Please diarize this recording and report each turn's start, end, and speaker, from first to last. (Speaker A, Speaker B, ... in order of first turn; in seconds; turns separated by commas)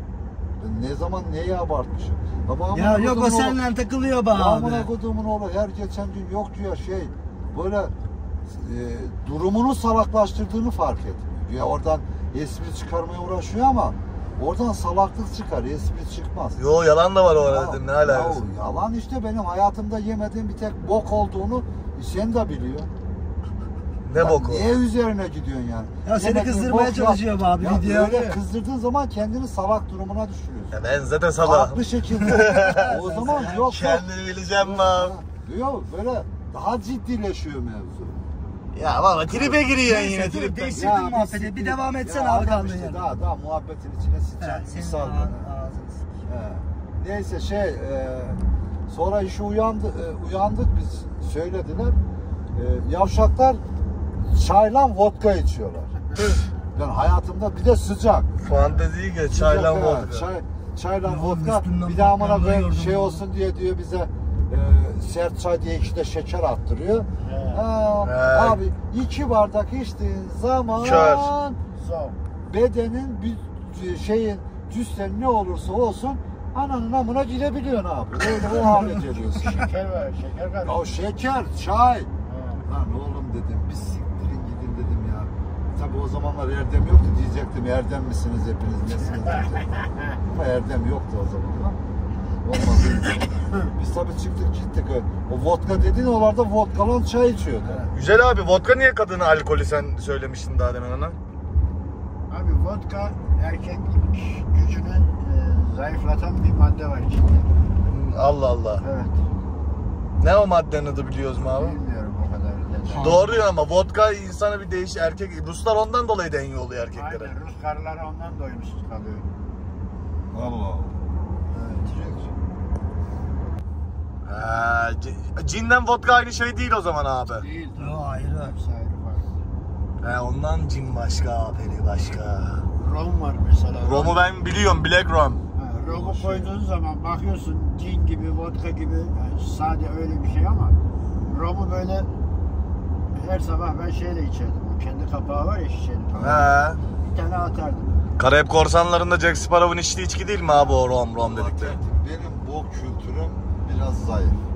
Speaker A: 0.6-3.6, Speaker B: 2.7-4.9, Speaker A: 4.3-7.9, Speaker A: 8.5-16.6, Speaker C: 16.6-18.4, Speaker A: 17.4-22.9, Speaker C: 24.1-24.7, Speaker A: 24.2-30.8, Speaker B: 26.1-28.4, Speaker C: 30.7-33.0, Speaker A: 31.4-38.2, Speaker B: 32.6-33.8, Speaker C: 33.5-35.1, Speaker C: 38.8-40.8, Speaker A: 39.3-39.6, Speaker B: 39.5-43.1, Speaker A: 40.7-45.5, Speaker B: 44.4-46.2, Speaker A: 46.2-52.0, Speaker A: 52.5-53.6, Speaker A: 54.2-56.0, Speaker A: 56.7-71.6, Speaker C: 58.4-60.3, Speaker B: 61.1-63.2, Speaker D: 67.2-67.6, Speaker C: 68.0-68.6, Speaker C: 70.8-71.3, Speaker D: 71.7-72.2, Speaker A: 72.5-79.7, Speaker D: 79.3-80.8, Speaker A: 80.6-82.1, Speaker D: 82.3-82.6, Speaker A: 82.7-91.8, Speaker A: 92.4-97.9, Speaker C: 97.9-101.2, Speaker D: 102.3-107.5, Speaker C: 107.8-108.8, Speaker D: 108.8-109.2, Speaker C: 110.2-111.8, Speaker D: 111.4-113.4, Speaker B: 113.0-113.5, Speaker C: 113.0-117.3, Speaker D: 116.9-119.3, Speaker A: 120.3-121.2, Speaker D: 121.5-122.0, Speaker A: 121.7-122.3, Speaker C: 124.3-127.5, Speaker D: 127.3-129.3, Speaker B: 127.8-128.6, Speaker C: 130.0-132.7, Speaker D: 132.8-134.2, Speaker C: 133.8-135.4, Speaker D: 135.6-142.1, Speaker A: 135.7-136.6, Speaker D: 143.1-148.0, Speaker A: 146.1-146.6, Speaker C: 146.2-146.8, Speaker C: 148.2-151.8, Speaker A: 151.2-154.5